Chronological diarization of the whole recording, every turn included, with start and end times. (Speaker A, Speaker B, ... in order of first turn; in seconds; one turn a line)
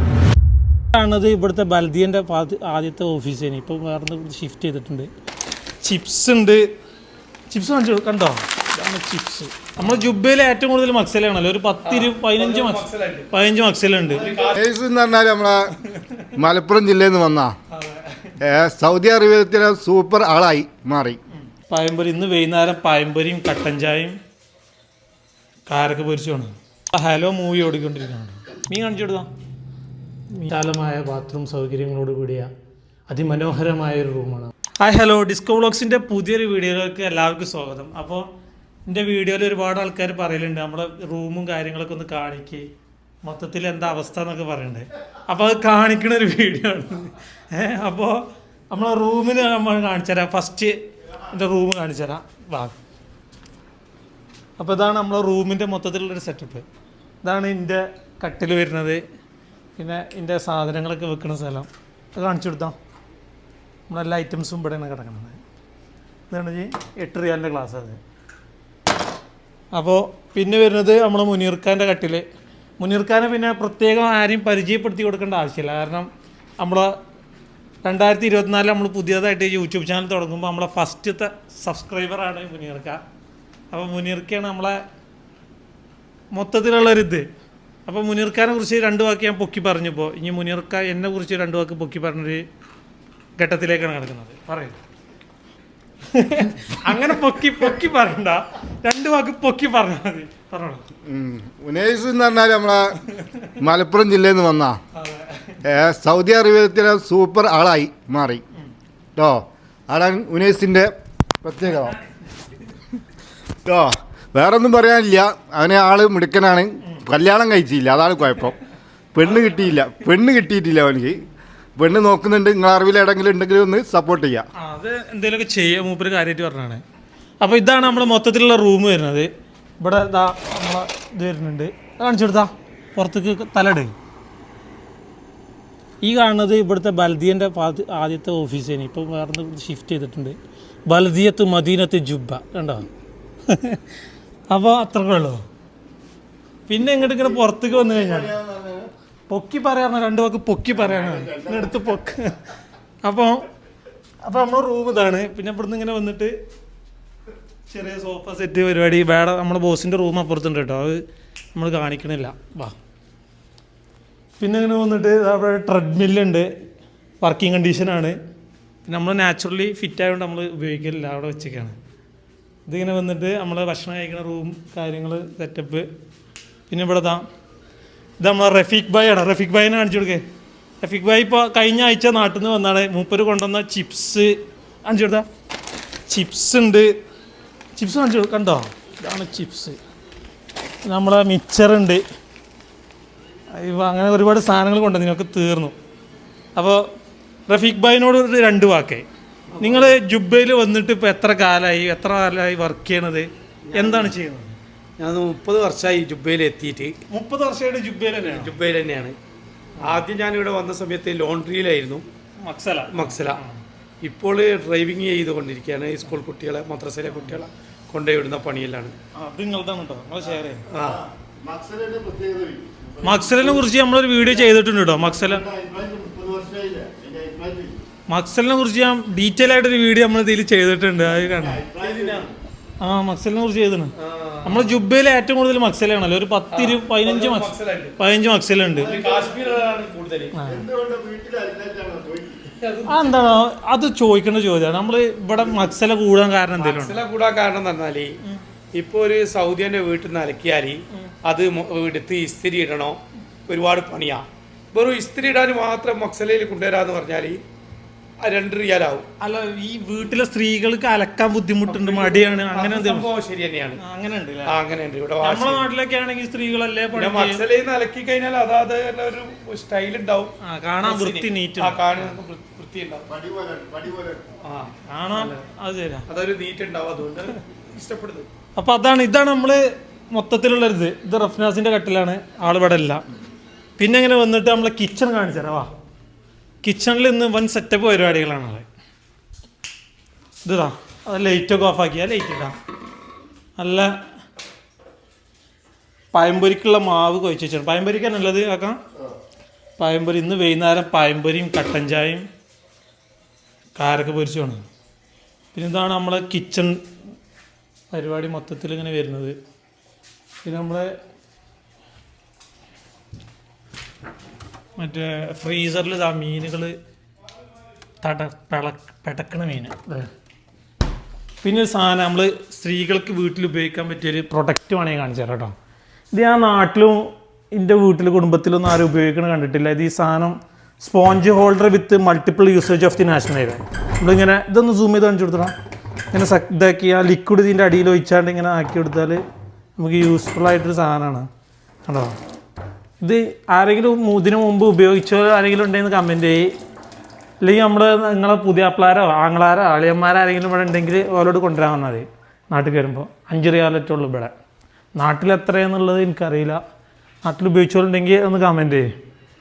Speaker A: 0.9-5.1
Speaker A: 5.8-6.7
Speaker A: 7.5-14.3
Speaker B: 11.8-13.3
Speaker B: 14.1-14.7
Speaker C: 14.2-15.7
Speaker A: 15.9-16.3
Speaker C: 16.4-17.6
Speaker A: 17.7-18.4
Speaker C: 18.4-21.2
Speaker A: 21.7-24.2
Speaker A: 25.7-29.3
Speaker A: 30.3-32.5
Speaker A: 33.1-38.3
Speaker A: 38.9-42.7
Speaker A: 43.2-50.7
Speaker A: 51.3-52.8
Speaker A: 54.6-56.7
Speaker A: 57.2-59.0
Speaker A: 59.8-62.8
Speaker A: 63.9-65.4
Speaker A: 66.3-68.0
Speaker A: 69.7-72.2
Speaker A: 72.8-76.9
Speaker A: 77.8-83.0
Speaker A: 83.7-84.8
Speaker A: 86.3-87.3
Speaker A: 87.9-92.4
Speaker A: 93.4-94.8
Speaker A: 96.1-100.8
Speaker C: 101.1-103.0
Speaker A: 103.2-103.5
Speaker C: 103.6-104.8
Speaker A: 105.0-105.6
Speaker C: 105.6-108.4
Speaker C: 109.2-110.9
Speaker C: 111.4-112.0
Speaker C: 113.7-118.6
Speaker C: 119.1-121.2
Speaker C: 121.8-124.5
Speaker A: 124.6-126.8
Speaker A: 127.4-129.3
Speaker A: 129.8-133.9
Speaker A: 136.0-140.4
Speaker A: 140.9-142.9
Speaker A: 143.5-143.8
Speaker A: 144.5-145.4
Speaker A: 146.7-148.3
Speaker C: 147.0-148.9
Speaker A: 149.3-152.5
Speaker C: 150.8-151.8
Speaker A: 153.0-153.4
Speaker A: 154.2-156.3
Speaker A: 157.7-161.0
Speaker A: 161.6-162.8
Speaker A: 164.4-166.5
Speaker A: 167.2-168.2
Speaker A: 168.9-171.8
Speaker A: 172.7-175.9
Speaker A: 176.7-177.2
Speaker A: 178.2-180.2
Speaker A: 180.8-185.3
Speaker A: 186.1-186.9
Speaker A: 187.8-189.8
Speaker A: 190.8-192.0
Speaker A: 193.5-195.7
Speaker A: 196.6-196.8
Speaker A: 197.5-199.1
Speaker B: 199.5-200.0
Speaker A: 199.6-204.5
Speaker B: 203.7-204.1
Speaker B: 205.0-206.9
Speaker A: 207.1-208.6
Speaker B: 208.2-209.2
Speaker B: 209.8-212.0
Speaker A: 212.4-213.6
Speaker B: 212.9-213.4
Speaker B: 214.0-218.9
Speaker A: 219.2-220.7
Speaker B: 220.7-221.0
Speaker C: 220.8-223.7
Speaker A: 223.0-225.4
Speaker C: 224.3-227.8
Speaker A: 228.1-231.6
Speaker C: 231.4-232.3
Speaker B: 231.6-232.3
Speaker A: 232.8-233.9
Speaker B: 234.0-234.8
Speaker A: 234.4-238.9
Speaker B: 236.5-238.0
Speaker B: 238.8-240.4
Speaker C: 238.8-239.7
Speaker A: 240.3-240.7
Speaker C: 240.5-242.5
Speaker B: 242.6-242.9
Speaker A: 242.9-247.0
Speaker B: 246.6-248.2
Speaker B: 248.7-257.4
Speaker B: 258.2-259.1
Speaker A: 259.2-263.1
Speaker B: 261.7-263.8
Speaker A: 263.8-264.6
Speaker B: 264.5-265.7
Speaker A: 265.2-267.4
Speaker B: 266.9-273.1
Speaker A: 270.4-272.1
Speaker C: 273.1-274.3
Speaker B: 274.4-275.4
Speaker A: 274.9-276.1
Speaker B: 276.1-278.3
Speaker A: 278.6-283.0
Speaker A: 283.8-285.7
Speaker A: 286.6-288.7
Speaker A: 290.4-292.6
Speaker A: 293.6-293.9
Speaker A: 296.1-298.8
Speaker A: 299.8-302.2
Speaker A: 303.8-304.6
Speaker A: 305.5-306.8
Speaker A: 307.9-309.4
Speaker A: 310.4-310.9
Speaker A: 314.8-316.7
Speaker A: 318.0-320.1
Speaker A: 321.4-325.5
Speaker A: 326.1-335.5
Speaker A: 336.1-339.2
Speaker A: 339.8-341.3
Speaker A: 341.9-342.2
Speaker A: 343.0-346.5
Speaker A: 347.4-354.3
Speaker A: 355.0-356.6
Speaker A: 357.2-358.9